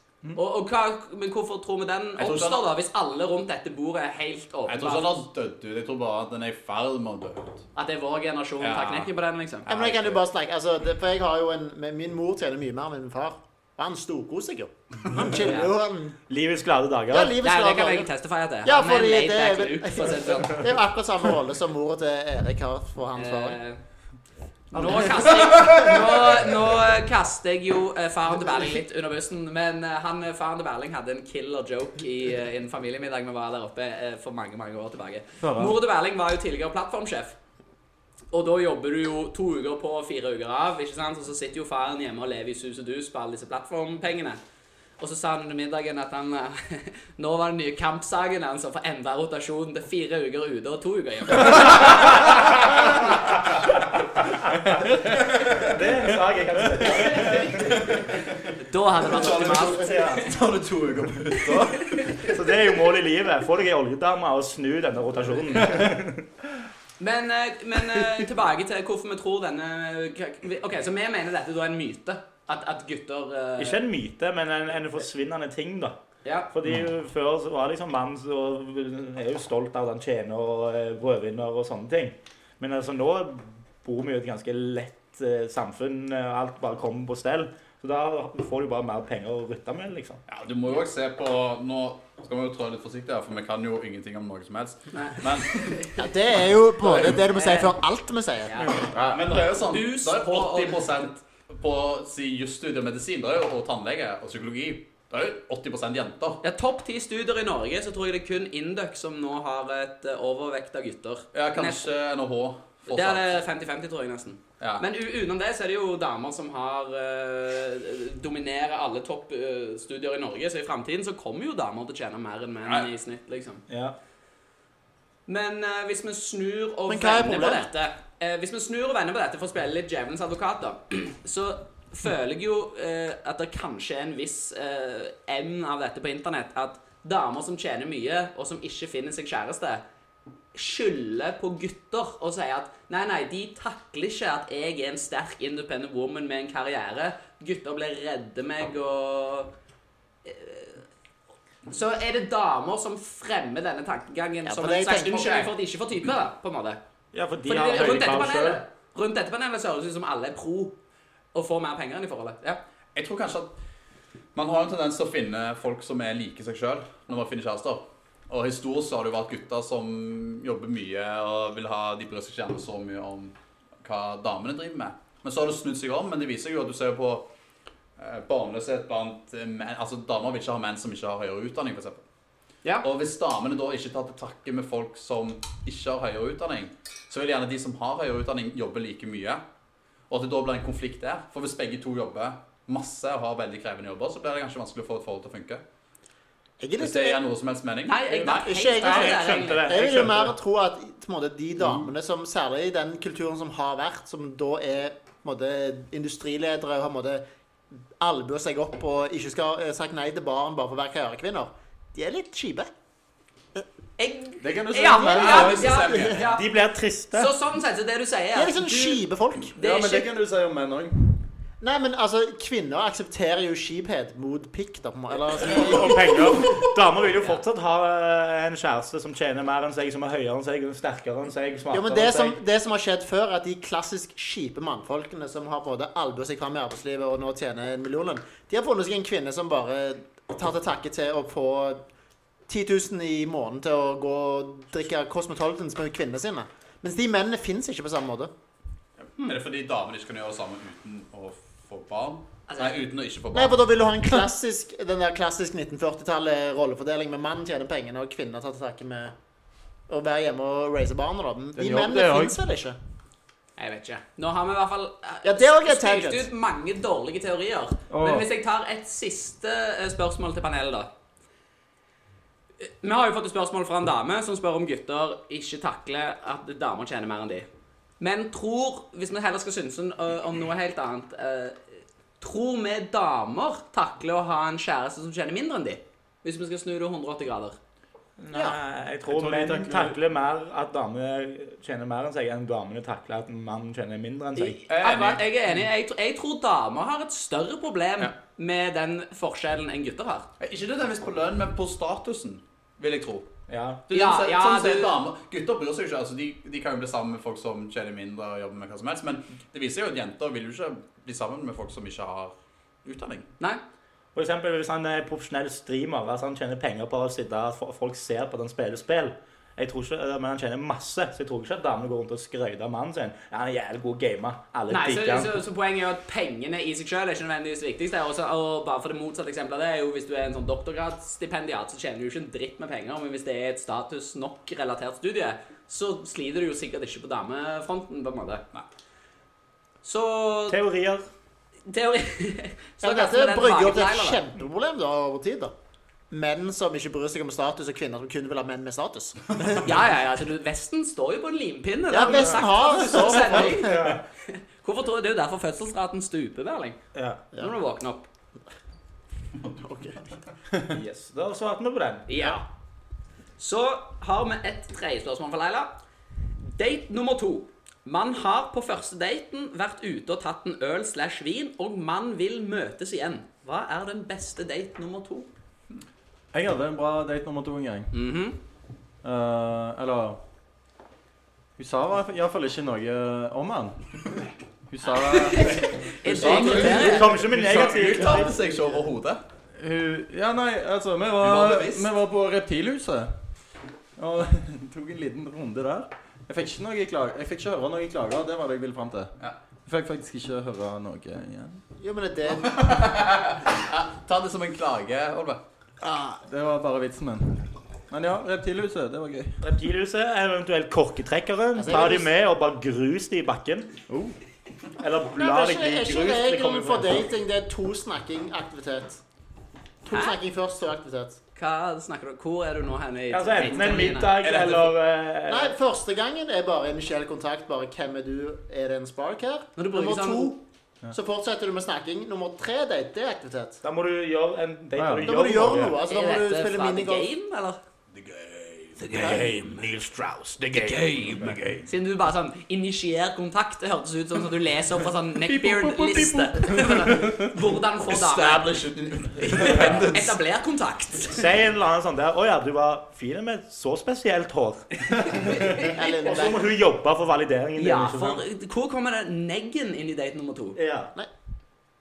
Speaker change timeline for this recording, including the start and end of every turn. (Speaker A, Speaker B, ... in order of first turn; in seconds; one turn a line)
Speaker A: 0.3-5.2
Speaker B: 2.2-2.7
Speaker B: 4.7-7.6
Speaker A: 7.8-10.2
Speaker B: 8.6-9.1
Speaker C: 9.7-16.2
Speaker A: 15.3-15.7
Speaker D: 16.3-17.4
Speaker C: 17.1-18.1
Speaker A: 17.4-20.6
Speaker C: 18.6-23.6
Speaker A: 23.1-23.8
Speaker A: 24.7-37.4
Speaker D: 24.7-25.4
Speaker E: 35.4-35.8
Speaker A: 38.3-44.4
Speaker A: 45.0-52.5
Speaker D: 52.3-57.9
Speaker A: 56.9-57.5
Speaker B: 57.6-58.0
Speaker A: 58.5-60.3
Speaker B: 59.0-62.2
Speaker D: 59.8-60.2
Speaker A: 61.5-62.2
Speaker D: 62.2-66.3
Speaker A: 67.0-73.8
Speaker D: 73.6-76.0
Speaker A: 76.2-76.5
Speaker D: 76.5-90.2
Speaker B: 90.3-95.8
Speaker A: 94.9-96.1
Speaker C: 96.0-98.8
Speaker B: 96.8-97.1
Speaker A: 97.2-97.8
Speaker A: 98.5-98.9
Speaker E: 98.8-99.2
Speaker B: 98.9-106.4
Speaker A: 99.4-100.9
Speaker A: 106.4-111.8
Speaker B: 111.3-113.4
Speaker A: 112.9-123.6
Speaker D: 123.7-124.0
Speaker A: 125.3-139.8
Speaker C: 126.9-127.7
Speaker A: 140.5-149.5
Speaker A: 150.2-150.8
Speaker A: 151.7-156.8
Speaker C: 154.4-155.5
Speaker D: 157.1-158.6
Speaker A: 157.4-160.7
Speaker A: 161.3-162.6
Speaker B: 162.9-163.5
Speaker B: 164.3-177.3
Speaker B: 178.0-182.0
Speaker B: 182.8-189.4
Speaker B: 190.1-195.6
Speaker C: 196.6-197.2
Speaker B: 196.8-198.3
Speaker A: 197.9-199.7
Speaker D: 198.2-200.3
Speaker C: 198.2-207.2
Speaker C: 208.0-212.7
Speaker A: 214.0-216.5
Speaker E: 214.4-215.7
Speaker B: 215.1-216.3
Speaker C: 215.3-216.2
Speaker D: 216.2-217.3
Speaker A: 217.1-219.0
Speaker C: 218.3-219.6
Speaker E: 219.6-221.3
Speaker A: 219.6-220.1
Speaker C: 221.6-226.6
Speaker D: 225.4-232.4
Speaker C: 231.7-241.8
Speaker C: 242.5-248.3
Speaker B: 249.1-253.6
Speaker A: 252.5-252.8
Speaker C: 253.3-259.1
Speaker C: 259.9-262.8
Speaker E: 261.6-262.4
Speaker A: 263.6-270.9
Speaker C: 265.2-266.3
Speaker E: 267.9-268.3
Speaker A: 272.6-277.5
Speaker A: 278.0-281.6
Speaker A: 282.2-287.6
Speaker D: 288.2-294.6
Speaker E: 289.1-290.0
Speaker A: 294.4-300.3
Speaker B: 294.7-295.2
Speaker B: 300.4-303.3
Speaker D: 303.5-303.8
Speaker B: 303.9-312.3
Speaker A: 303.9-305.0
Speaker B: 312.8-313.3
Speaker D: 314.1-325.4
Speaker A: 324.7-338.4
Speaker A: 339.8-340.6
Speaker D: 340.5-341.1
Speaker A: 341.7-344.2
Speaker C: 342.8-345.5
Speaker C: 346.1-349.7
Speaker A: 349.6-356.8
Speaker C: 351.9-354.0
Speaker D: 352.0-352.4
Speaker D: 353.4-354.0
Speaker D: 356.9-357.2
Speaker A: 357.4-358.0
Speaker C: 359.5-360.0
Speaker D: 360.6-362.4
Speaker A: 362.1-362.4
Speaker A: 363.4-365.7
Speaker A: 366.4-375.3
Speaker E: 376.3-377.9
Speaker A: 377.9-378.4
Speaker E: 379.0-380.2
Speaker E: 381.6-383.9
Speaker E: 384.7-387.1
Speaker A: 385.0-387.1
Speaker B: 386.1-389.2
Speaker D: 386.2-388.3
Speaker E: 389.6-393.3
Speaker B: 391.2-391.9
Speaker E: 394.0-399.1
Speaker E: 399.6-401.6
Speaker C: 401.8-402.7
Speaker B: 402.4-405.4
Speaker C: 405.8-406.1
Speaker E: 406.1-409.5
Speaker D: 409.4-413.7
Speaker C: 411.6-412.1
Speaker E: 413.9-414.1
Speaker D: 414.8-417.1
Speaker C: 415.1-419.0
Speaker C: 419.8-421.2
Speaker A: 419.9-420.2
Speaker A: 421.4-424.2
Speaker D: 423.1-425.6
Speaker B: 424.2-424.7
Speaker C: 425.3-430.4
Speaker A: 429.6-430.4
Speaker C: 430.9-433.6
Speaker D: 433.6-435.8
Speaker E: 434.8-435.1
Speaker C: 435.0-437.1
Speaker A: 435.8-437.6
Speaker B: 437.9-439.5
Speaker D: 438.9-441.6
Speaker B: 440.5-441.6
Speaker A: 441.6-448.5
Speaker E: 445.2-447.3
Speaker B: 447.9-450.2
Speaker A: 449.2-451.3
Speaker D: 451.1-455.2
Speaker A: 454.9-455.7
Speaker C: 455.5-456.4
Speaker D: 455.8-458.2
Speaker A: 457.6-460.6
Speaker D: 460.6-460.9